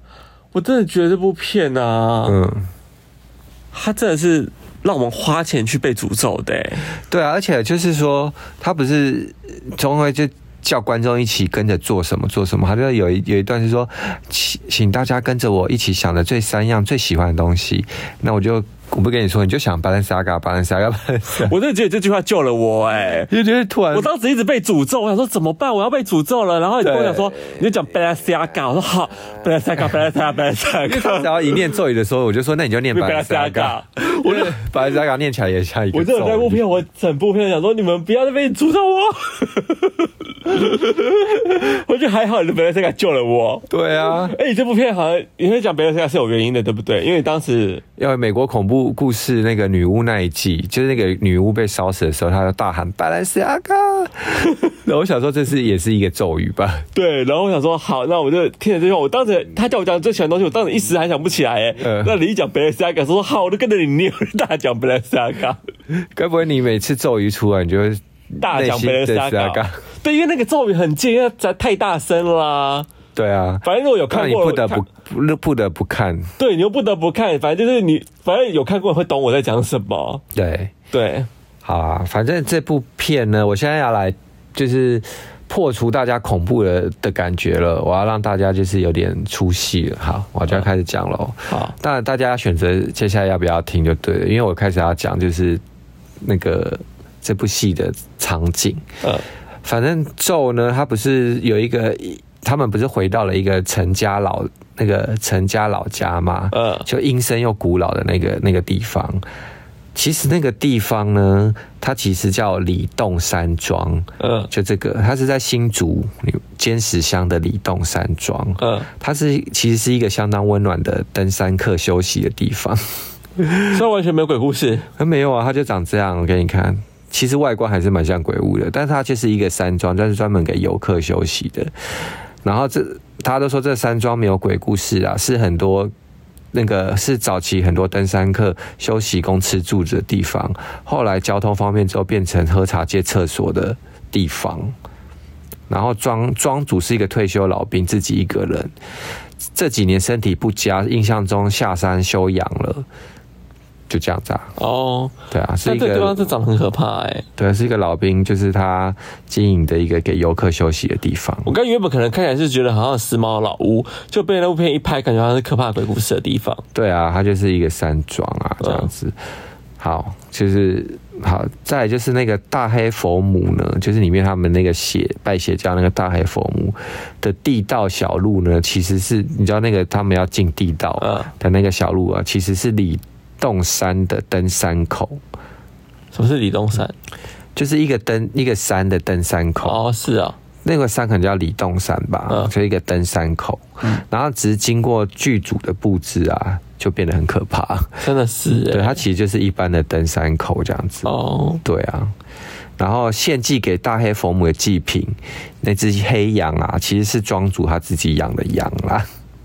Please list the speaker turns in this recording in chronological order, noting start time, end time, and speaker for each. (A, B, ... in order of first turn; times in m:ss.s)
0:00.5-0:02.4 A
0:02.2-0:02.7 B
0:03.7-0:06.9 A
0:07.1-0:21.5 B
0:21.3-0:23.3 A
0:23.3-0:24.1 B
0:23.9-0:31.7 A
0:26.8-0:27.3 B
0:30.8-0:36.7 B
0:32.9-0:34.7 A
0:35.9-0:47.8 A
0:43.7-0:44.4 B
0:48.0-0:56.9 B
0:57.0-1:05.6 A
1:01.8-1:02.2 B
1:05.9-1:09.8 B
1:08.4-1:12.9 A
1:13.2-1:16.3 B
1:13.6-1:14.9 A
1:16.4-1:20.2 A
1:20.3-1:20.7 B
1:20.9-1:21.3 A
1:21.6-1:35.6 B
1:31.5-1:31.8 A
1:36.2-1:38.8 B
1:39.6-1:49.2 B
1:46.5-1:46.9 A
1:50.0-2:03.8 B
1:54.2-1:54.5 A
1:58.6-1:58.9 A
2:03.7-2:04.9 A
2:05.0-2:11.7 B
2:12.4-2:15.9 B
2:16.5-2:24.8 B
2:25.7-2:28.8 B
2:29.5-2:32.9 B
2:33.9-2:34.6 B
2:34.6-2:37.2 A
2:35.3-2:36.3 B
2:37.4-2:41.5 B
2:41.5-2:46.6 A
2:46.7-2:49.2 B
2:48.6-2:48.9 A
2:49.8-3:05.2 B
3:01.0-3:01.3 A
3:06.1-3:06.9 A
3:07.6-3:09.8 B
3:09.6-3:10.4 A
3:10.6-3:18.0 B
3:18.0-3:19.0 A
3:18.5-3:21.1 B
3:21.0-3:21.6 A
3:21.6-3:22.1 B
3:22.8-3:29.1 B